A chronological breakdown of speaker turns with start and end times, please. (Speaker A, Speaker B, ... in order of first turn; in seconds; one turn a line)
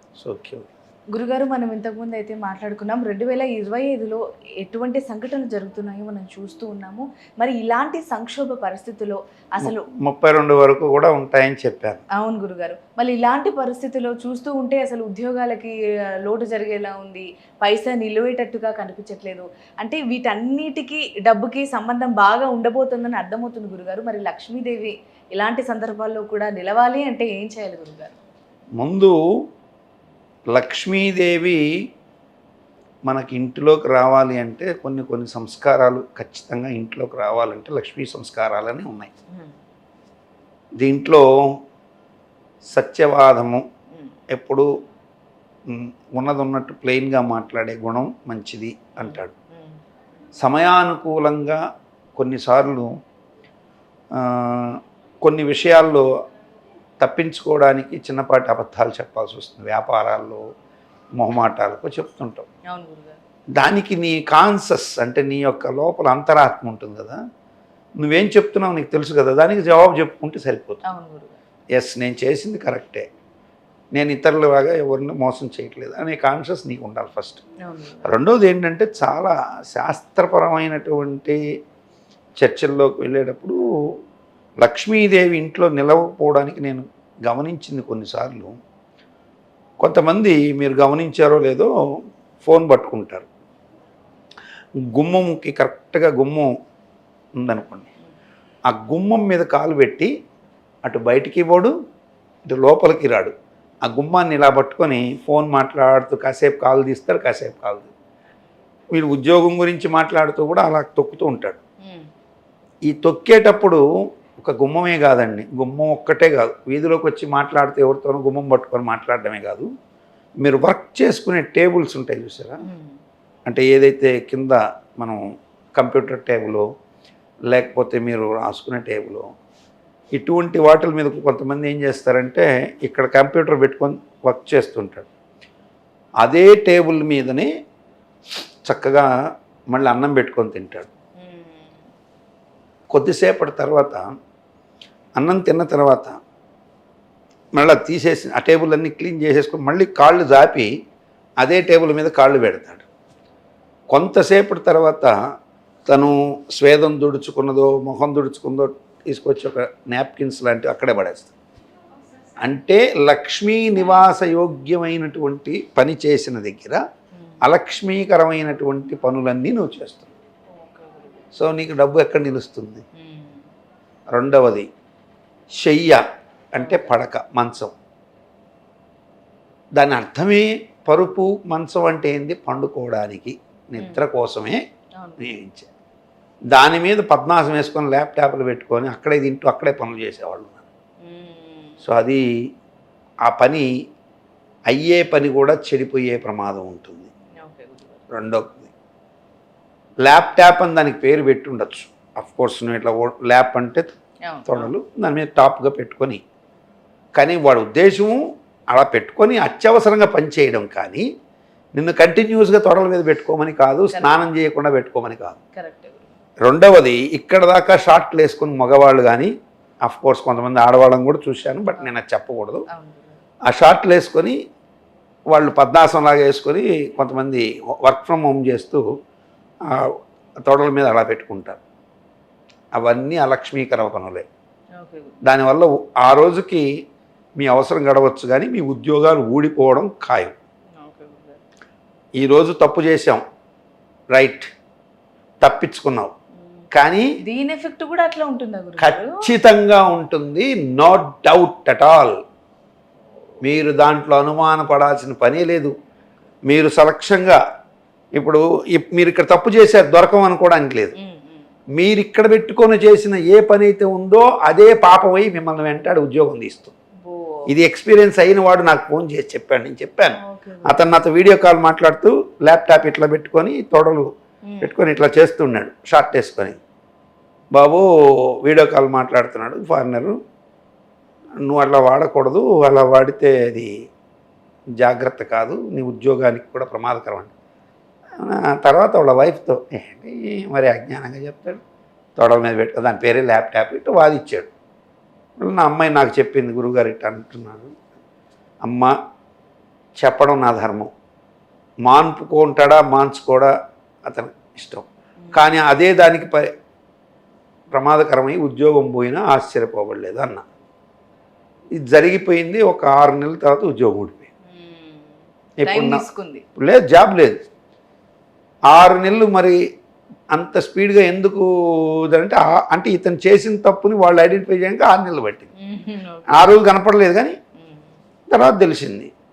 Speaker A: 0.2-0.7
Speaker B: 1.1-9.8
Speaker A: 9.6-12.0
Speaker B: 12.1-28.2
Speaker A: 28.8-29.2
Speaker A: 30.5-31.6
Speaker A: 33.1-39.1
Speaker A: 40.8-41.6
Speaker A: 42.7-43.6
Speaker A: 44.3-44.7
Speaker A: 45.7-49.3
Speaker B: 49.0-49.8
Speaker A: 50.4-51.6
Speaker A: 52.2-52.9
Speaker A: 54.1-56.1
Speaker A: 57.0-60.4
Speaker A: 61.2-62.5
Speaker B: 62.7-63.2
Speaker A: 63.6-67.2
Speaker A: 68.0-70.8
Speaker B: 70.8-71.4
Speaker A: 71.7-73.0
Speaker A: 73.9-77.4
Speaker B: 77.6-78.1
Speaker A: 78.0-81.4
Speaker A: 82.4-83.6
Speaker A: 84.6-88.5
Speaker A: 89.8-91.7
Speaker A: 92.4-93.3
Speaker A: 94.9-96.5
Speaker A: 97.4-97.9
Speaker A: 98.7-100.1
Speaker A: 100.8-101.7
Speaker A: 102.5-103.3
Speaker A: 103.8-107.9
Speaker A: 108.9-111.6
Speaker B: 111.8-112.1
Speaker A: 112.9-113.8
Speaker A: 114.4-119.7
Speaker A: 120.4-122.6
Speaker B: 122.6-123.0
Speaker A: 123.5-125.2
Speaker A: 125.8-126.7
Speaker A: 127.5-129.3
Speaker A: 130.2-135.1
Speaker A: 136.2-137.5
Speaker A: 138.7-139.1
Speaker A: 139.7-140.9
Speaker B: 141.2-141.8
Speaker A: 142.9-144.0
Speaker A: 145.2-146.2
Speaker A: 147.6-150.7
Speaker A: 151.4-152.9
Speaker A: 153.9-155.1
Speaker A: 155.9-161.3
Speaker A: 162.4-166.8
Speaker B: 167.2-167.4
Speaker A: 167.4-170.1
Speaker B: 170.5-171.3
Speaker A: 171.3-172.8
Speaker B: 173.0-173.5
Speaker A: 174.1-174.7
Speaker A: 175.6-176.0
Speaker A: 176.6-177.7
Speaker B: 176.6-176.9
Speaker A: 179.8-184.6
Speaker B: 185.0-185.2
Speaker A: 185.2-185.7
Speaker A: 186.5-190.7
Speaker B: 191.0-191.8
Speaker A: 191.8-192.2
Speaker A: 193.2-193.7
Speaker A: 194.7-197.1
Speaker B: 197.4-198.1
Speaker A: 198.1-198.7
Speaker A: 200.0-203.9
Speaker B: 204.3-204.7
Speaker A: 204.5-206.2
Speaker A: 207.2-211.1
Speaker A: 211.8-215.4
Speaker B: 213.9-214.2
Speaker B: 215.6-216.1
Speaker A: 216.4-219.3
Speaker A: 219.8-222.7
Speaker B: 222.7-223.2
Speaker A: 223.5-224.4
Speaker A: 225.3-228.8
Speaker A: 229.7-231.6
Speaker A: 232.8-234.3
Speaker B: 234.8-235.2
Speaker A: 235.2-236.7
Speaker A: 237.4-240.3
Speaker B: 240.8-241.4
Speaker A: 242.2-243.2
Speaker A: 244.1-244.5
Speaker A: 245.4-246.1
Speaker B: 246.4-246.7
Speaker A: 246.7-247.1
Speaker B: 247.2-249.3
Speaker A: 248.8-252.2
Speaker A: 253.4-255.7
Speaker A: 256.4-257.4
Speaker A: 258.2-260.9
Speaker B: 261.0-261.5
Speaker A: 261.8-266.7
Speaker B: 267.0-267.5
Speaker A: 267.5-274.1
Speaker B: 270.2-270.9
Speaker B: 274.5-274.7
Speaker A: 274.6-276.6
Speaker A: 277.5-280.2
Speaker A: 281.4-283.7
Speaker A: 284.8-287.3
Speaker A: 288.2-291.6
Speaker A: 292.2-294.5
Speaker A: 295.4-297.7
Speaker A: 298.6-298.9
Speaker A: 300.0-300.9
Speaker A: 301.9-303.5
Speaker A: 304.1-306.5
Speaker B: 305.2-305.5
Speaker A: 307.7-310.4
Speaker A: 311.8-314.3
Speaker B: 314.5-316.4
Speaker A: 315.6-316.0
Speaker A: 316.6-317.4
Speaker A: 318.7-319.6
Speaker A: 320.3-325.5
Speaker B: 325.6-326.5
Speaker A: 326.3-327.4
Speaker B: 327.6-328.0
Speaker A: 328.3-329.1